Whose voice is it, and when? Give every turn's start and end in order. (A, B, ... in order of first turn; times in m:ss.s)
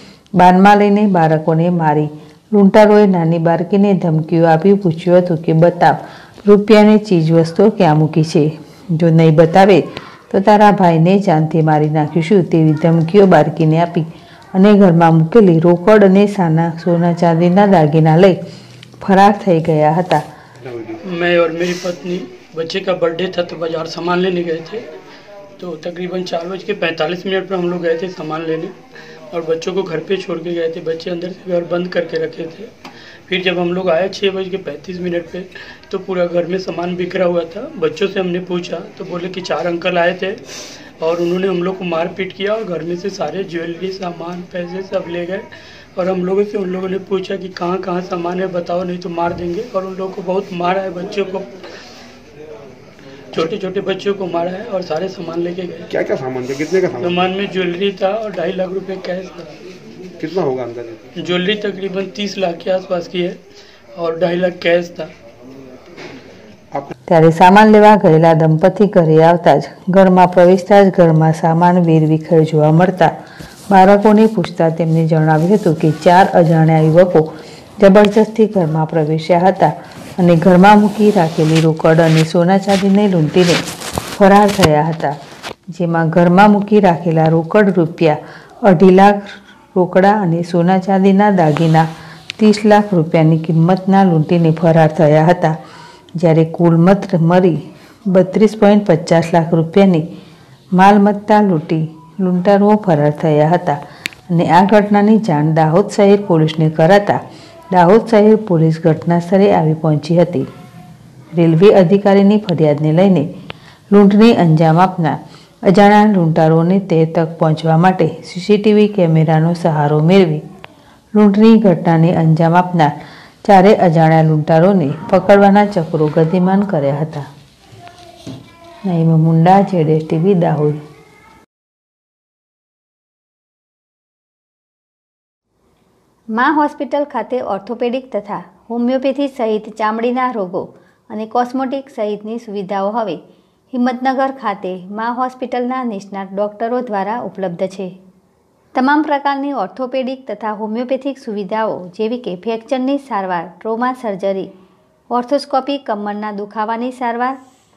0:00.4-0:18.4 A
0:19.0-0:20.2 A
0:20.6-0:21.0 B
0:21.0-0:24.8 C
0:25.6-0:28.7 C
0:29.3-0:32.7 C
0:33.3-0:40.4 C
0:41.0-0:51.5 C
0:53.3-0:55.9 C
0:55.9-0:57.3 B
0:57.0-0:59.5 C
1:00.2-1:01.0 B
1:01.2-1:03.4 C
1:04.0-1:05.1 C
1:07.1-1:13.1 A
1:13.7-1:17.2 A
1:17.8-1:23.6 A
1:24.2-1:25.1 A
1:25.7-1:31.8 A
1:32.4-1:35.5 A
1:36.2-1:37.6 A
1:38.1-1:40.0 A
1:40.8-1:43.8 A
1:44.3-1:47.2 A
1:47.7-1:50.5 A
1:51.4-1:53.3 A
1:53.9-1:55.2 A
1:55.7-2:00.4 A
2:01.2-2:02.9 A
2:03.4-2:07.2 A
2:08.8-2:10.8 A
2:16.4-2:23.2 D
2:23.7-2:27.9 D
2:28.7-2:34.5 D
2:35.1-2:37.4 D